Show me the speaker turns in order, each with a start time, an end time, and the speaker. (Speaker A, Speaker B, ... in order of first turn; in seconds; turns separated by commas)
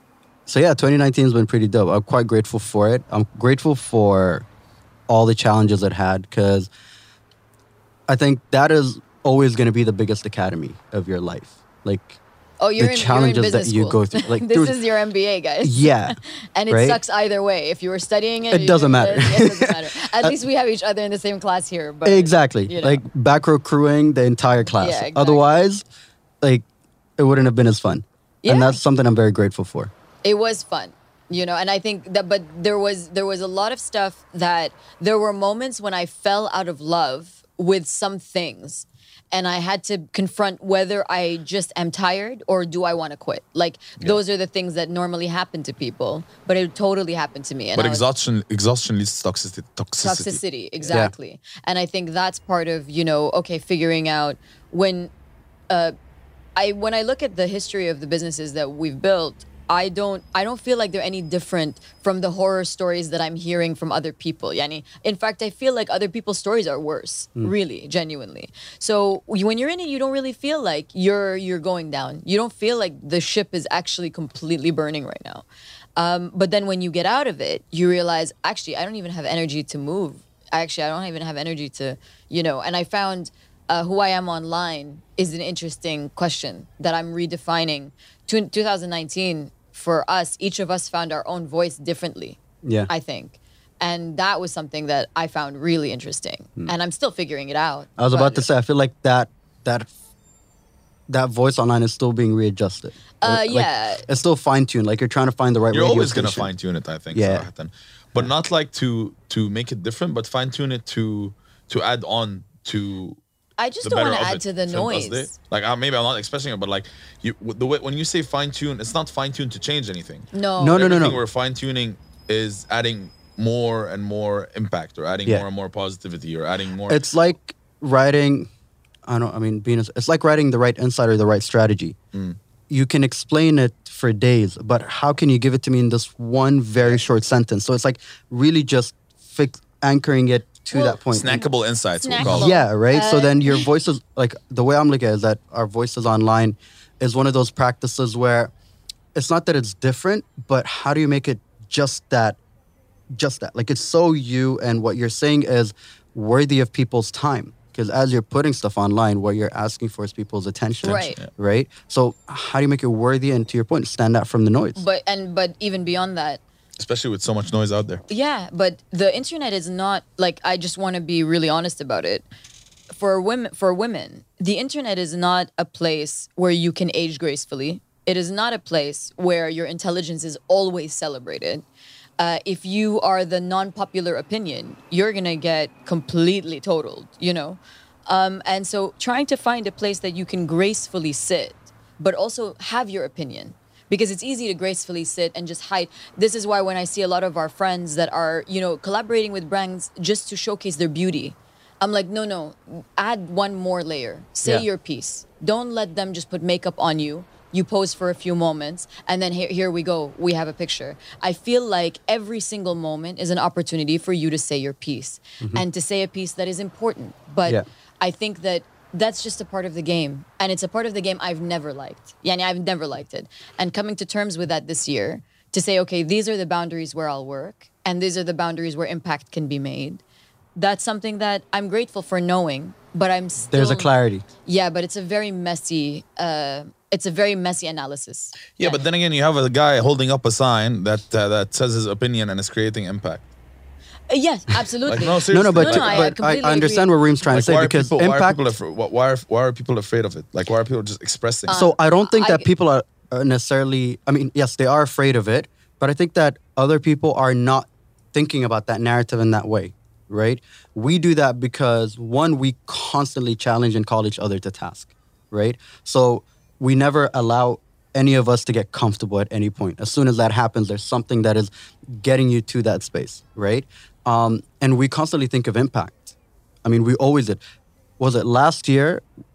Speaker A: 0.5-4.4, Speaker A: 5.1-6.7, Speaker A: 8.1-12.2, Speaker B: 12.6-23.0, Speaker A: 12.8-14.8, Speaker A: 15.6-16.2, Speaker A: 16.7-17.0, Speaker A: 18.5-20.3, Speaker A: 22.0-25.8, Speaker B: 24.8-25.5, Speaker A: 27.2-29.9, Speaker B: 28.4-28.8, Speaker B: 30.2-48.0, Speaker C: 47.8-50.4, Speaker B: 50.0-55.1, Speaker B: 55.7-55.9, Speaker B: 56.5-75.4, Speaker B: 76.0-98.5, Speaker A: 92.6-92.9, Speaker A: 98.0-99.9, Speaker A: 101.1-106.5, Speaker B: 103.2-104.0, Speaker C: 105.7-113.2, Speaker A: 107.1-107.5, Speaker B: 113.6-115.3, Speaker C: 113.8-127.0, Speaker B: 120.3-120.8, Speaker A: 120.6-121.2, Speaker A: 126.9-128.5, Speaker A: 129.1-132.0, Speaker A: 132.7-141.4, Speaker B: 140.7-143.6, Speaker C: 141.1-142.5, Speaker A: 142.2-148.5, Speaker A: 149.1-152.4, Speaker A: 153.1-164.8, Speaker B: 160.8-161.2, Speaker C: 160.8-161.3, Speaker B: 164.8-166.4, Speaker C: 166.8-168.0, Speaker B: 168.1-172.3, Speaker B: 172.9-181.6, Speaker B: 182.2-230.0, Speaker B: 230.6-233.9, Speaker A: 233.5-234.2, Speaker B: 234.4-238.8, Speaker C: 238.6-243.2, Speaker B: 244.1-246.9, Speaker C: 244.8-246.1, Speaker A: 245.3-248.4, Speaker C: 247.3-251.6, Speaker B: 251.5-252.5, Speaker A: 251.5-277.4, Speaker A: 278.0-279.0